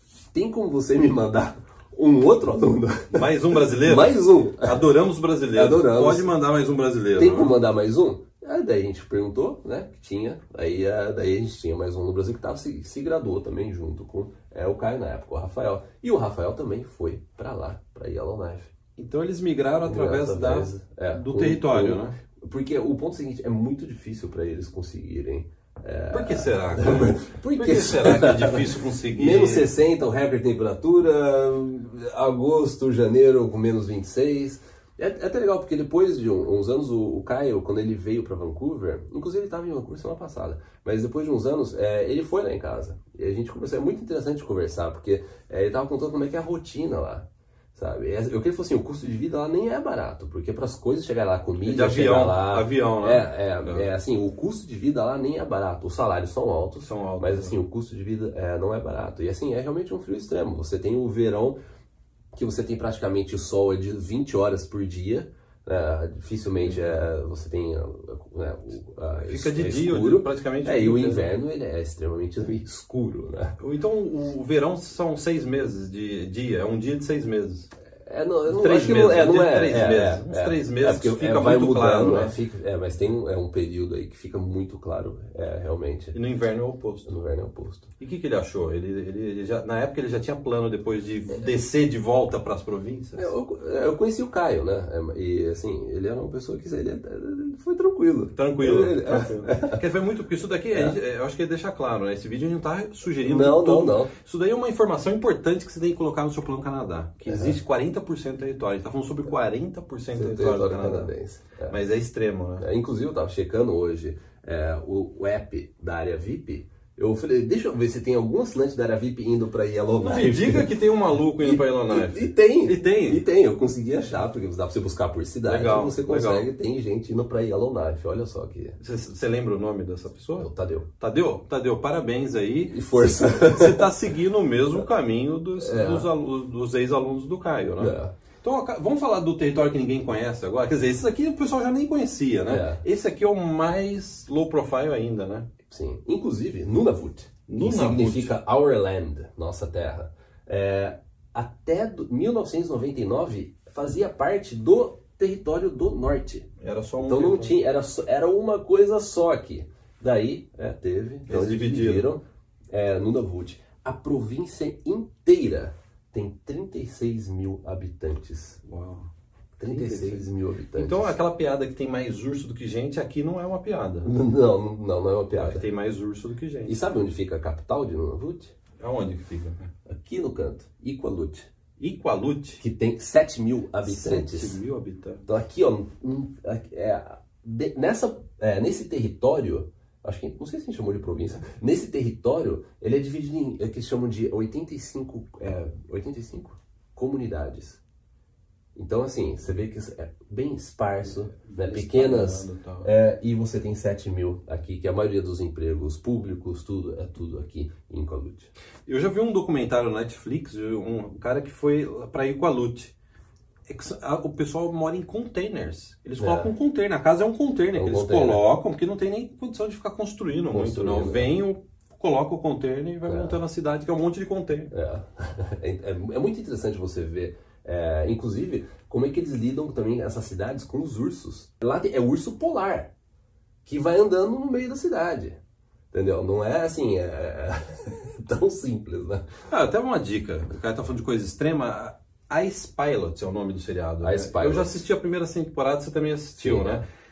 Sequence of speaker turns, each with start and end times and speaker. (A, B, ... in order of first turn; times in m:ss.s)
0:00.3-0:04.9 A
0:03.1-0:07.6 B
0:05.5-0:06.3 A
0:07.2-0:18.7 A
0:19.0-0:22.2 B
0:19.9-1:01.6 A
0:26.1-0:29.7 B
0:51.6-0:53.9 B
0:56.8-0:57.6 B
1:02.3-1:13.6 A
1:09.3-1:11.3 B
1:13.6-1:17.7 B
1:18.1-1:26.2 A
1:18.5-1:22.4 B
1:26.1-1:27.1 B
1:27.1-1:27.9 A
1:28.0-1:33.3 B
1:33.2-1:39.8 A
1:38.4-1:51.1 B
1:40.7-1:41.0 A
1:43.2-1:44.1 A
1:47.3-1:47.6 A
1:50.1-1:51.8 A
1:51.7-1:52.7 B
1:52.6-2:00.8 A
2:00.0-2:03.2 B
2:01.3-2:08.8 A
2:05.5-2:06.5 B
2:08.8-2:10.5 B
2:10.4-2:10.9 A
2:11.0-2:25.5 B
2:12.7-2:13.9 A
2:15.6-2:16.1 A
2:17.8-2:18.1 A
2:22.5-2:22.8 A
2:25.7-2:36.5 A
2:27.5-2:28.3 B
2:36.6-2:37.6 B
2:37.0-2:48.6 A
2:41.3-2:42.1 B
2:48.7-2:49.1 B
2:49.6-2:51.2 A
2:49.7-2:54.1 B
2:54.0-2:55.7 A
2:55.3-2:56.8 B
2:56.7-2:58.6 A
2:58.8-2:59.7 B
2:59.9-3:01.5 A
3:01.8-3:02.6 B
3:02.6-3:04.6 A
3:03.8-3:05.2 B
3:05.3-3:17.8 A
3:18.8-3:28.5 A
3:21.1-3:22.9 B
3:28.9-3:33.0 B
3:33.7-3:44.7 B
3:36.2-3:36.5 A
3:37.7-3:38.5 A
3:40.5-3:41.4 A
3:43.1-3:43.4 A
3:44.7-3:52.9 A
3:53.6-3:55.4 A
3:55.9-3:59.3 A
3:59.5-4:06.9 B
4:04.0-4:04.8 A
4:06.4-4:06.8 A